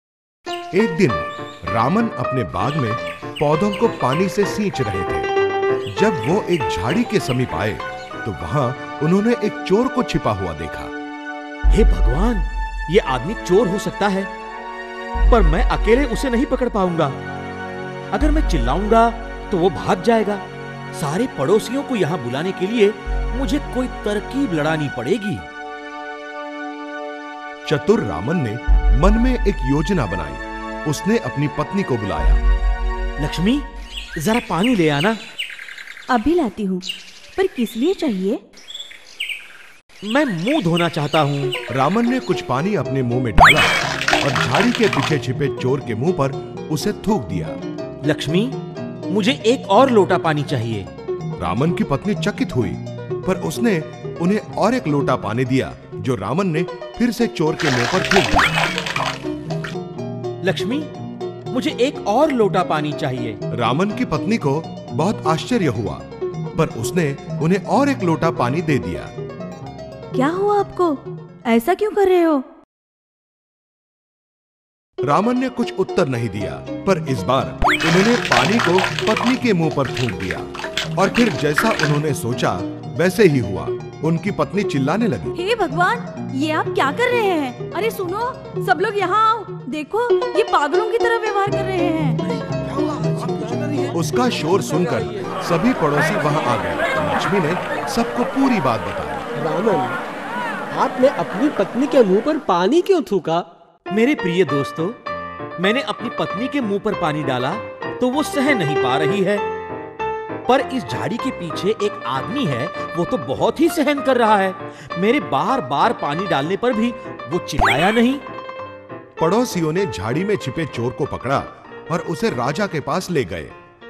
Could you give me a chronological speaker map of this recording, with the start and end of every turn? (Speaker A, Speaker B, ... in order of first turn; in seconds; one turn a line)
Speaker A: 0.7-5.3
Speaker A: 5.9-10.9
Speaker B: 11.7-14.3
Speaker B: 15.3-17.1
Speaker B: 18.1-20.4
Speaker B: 20.9-25.4
Speaker A: 27.6-32.4
Speaker B: 33.2-33.6
Speaker B: 34.2-35.2
Speaker C: 36.1-36.8
Speaker C: 37.4-38.4
Speaker B: 40.0-41.5
Speaker A: 41.7-47.6
Speaker B: 48.0-48.6
Speaker B: 49.1-50.9
Speaker A: 51.4-58.6
Speaker B: 60.4-60.9
Speaker B: 61.5-63.4
Speaker A: 63.5-66.0
Speaker A: 66.5-69.1
Speaker C: 70.1-72.4
Speaker A: 75.1-85.4
Speaker C: 85.3-92.2
Speaker D: 92.5-93.9
Speaker A: 93.9-99.3
Speaker D: 99.3-100.0
Speaker D: 100.7-103.5
Speaker B: 103.9-105.0
Speaker B: 105.6-109.4
Speaker B: 110.5-118.2
Speaker A: 119.2-123.5